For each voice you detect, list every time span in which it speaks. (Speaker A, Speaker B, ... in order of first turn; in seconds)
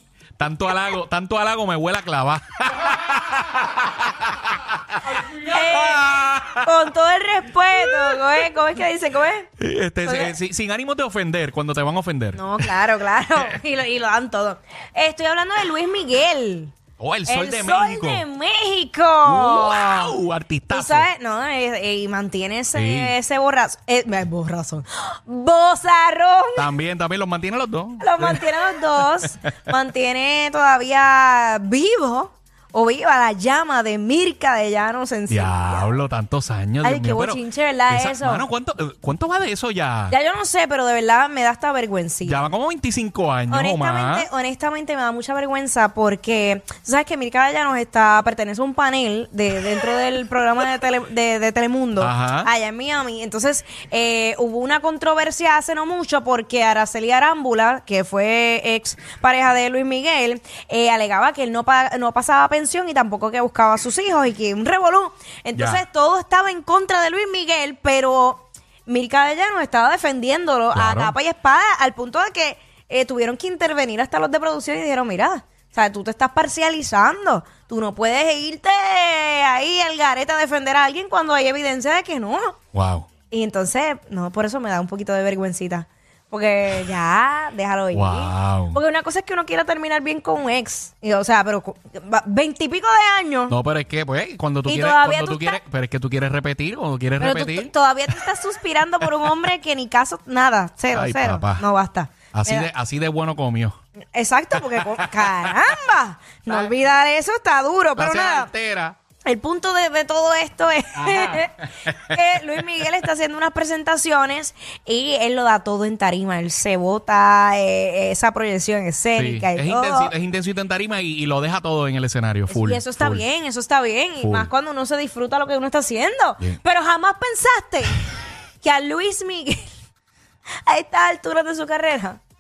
Speaker A: 0.4-6.7, 7.8-8.2, 9.6-12.7, 17.0-18.2, 19.2-21.1, 22.8-23.1, 26.6-28.4, 35.3-40.2, 42.2-44.3, 52.0-52.5, 65.6-65.8, 70.7-71.2, 82.7-83.1, 87.9-88.8, 93.5-97.7, 100.9-101.6, 102.3-103.8, 105.0-105.4, 108.0-109.0, 111.0-112.2, 119.2-123.2, 124.2-124.5
Speaker B: 5.4-6.1, 6.6-9.5, 10.0-10.4, 12.3-16.7, 17.3-20.2, 20.7-26.7, 28.0-35.9, 36.8-38.5, 40.1-42.4, 43.5-82.6, 83.3-93.5, 94.7-95.6, 97.2-102.7, 104.1-108.5, 109.2-120.1, 122.5-128.1, 128.6-129.7, 130.6-132.2